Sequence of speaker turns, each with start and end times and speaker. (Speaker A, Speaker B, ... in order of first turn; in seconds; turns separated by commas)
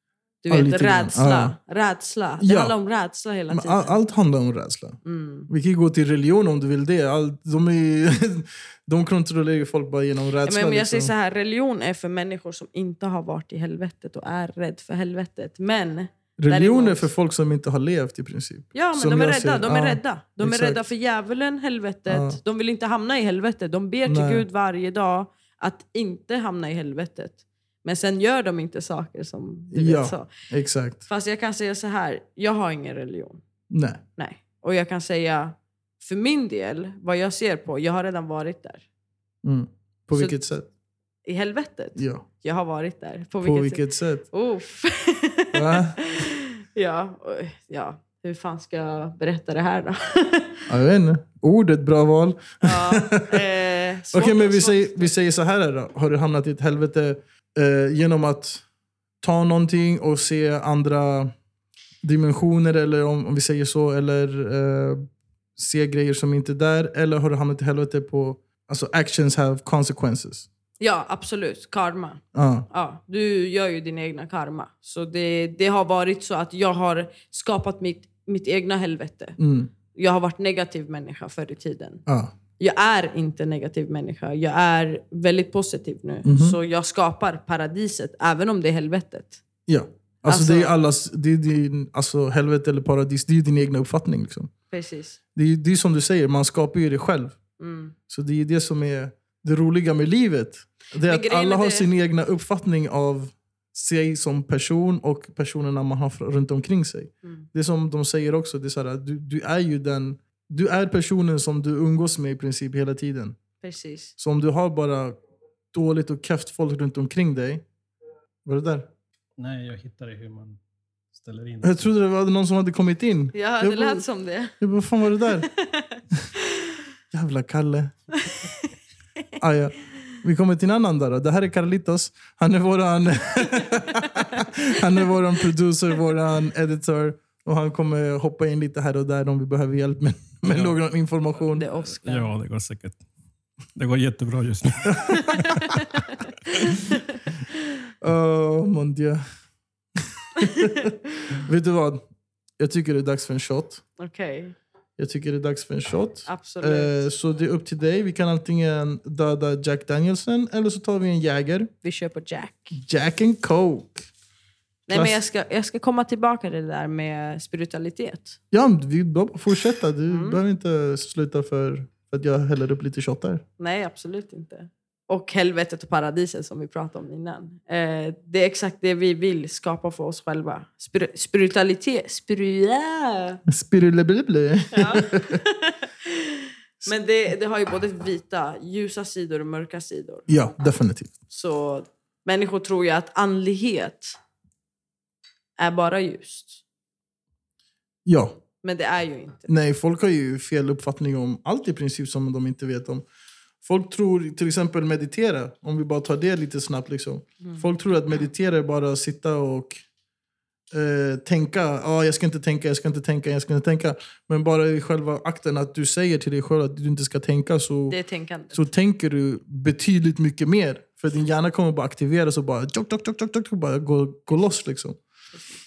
Speaker A: 0.4-4.0, Speaker B: 0.5-1.6, Speaker B: 2.4-2.8, Speaker B: 3.5-11.1, Speaker A: 5.0-5.5, Speaker A: 10.4-17.1, Speaker B: 16.4-20.8, Speaker A: 18.7-30.3, Speaker B: 22.1-22.4, Speaker B: 24.1-24.4, Speaker B: 29.7-31.0, Speaker A: 31.1-33.4, Speaker B: 33.7-34.0, Speaker A: 34.2-38.8, Speaker B: 39.4-40.7, Speaker A: 41.3-50.7, Speaker B: 42.0-42.3, Speaker B: 43.4-44.2, Speaker B: 45.5-46.0, Speaker B: 50.7-53.5, Speaker A: 52.6-55.1, Speaker B: 54.1-58.6, Speaker B: 59.2-61.3, Speaker B: 62.0-65.1, Speaker B: 65.6-70.5, Speaker A: 70.8-79.4, Speaker B: 72.3-72.7, Speaker B: 79.4-79.7, Speaker A: 79.9-82.0, Speaker B: 82.1-82.3, Speaker A: 82.6-89.4, Speaker B: 86.2-86.6, Speaker B: 89.7-94.5, Speaker A: 90.3-90.8, Speaker A: 94.7-95.2, Speaker B: 95.3-97.4, Speaker A: 97.6-98.0, Speaker B: 98.1-113.4, Speaker A: 101.0-101.9, Speaker A: 113.6-114.1, Speaker B: 114.2-115.2, Speaker B: 115.7-117.7, Speaker B: 118.5-118.9, Speaker C: 119.4-120.6, Speaker C: 121.1-121.9, Speaker B: 121.6-124.0, Speaker A: 123.3-124.6, Speaker B: 124.6-125.5, Speaker A: 125.4-126.7, Speaker B: 127.1-127.9, Speaker B: 129.4-141.7, Speaker C: 140.5-140.8, Speaker A: 141.5-142.3, Speaker C: 142.1-143.0, Speaker C: 143.8-145.8, Speaker B: 144.9-145.4, Speaker A: 145.1-147.6, Speaker B: 148.0-149.2, Speaker B: 150.0-152.0, Speaker B: 152.6-153.8, Speaker A: 154.0-154.6, Speaker B: 155.0-161.7, Speaker A: 156.3-157.0, Speaker A: 161.8-162.8, Speaker B: 162.7-164.1, Speaker A: 164.9-168.4, Speaker B: 164.9-165.2, Speaker B: 168.5-173.4, Speaker A: 170.1-170.4, Speaker A: 173.6-183.4, Speaker B: 183.5-185.4, Speaker A: 184.7-190.3, Speaker B: 190.3-191.1, Speaker A: 191.3-194.2, Speaker A: 195.6-196.6, Speaker B: 198.1-198.3, Speaker A: 198.6-199.5, Speaker B: 199.5-203.0, Speaker B: 203.6-209.8, Speaker B: 210.7-218.0, Speaker A: 217.9-218.7, Speaker B: 218.5-225.0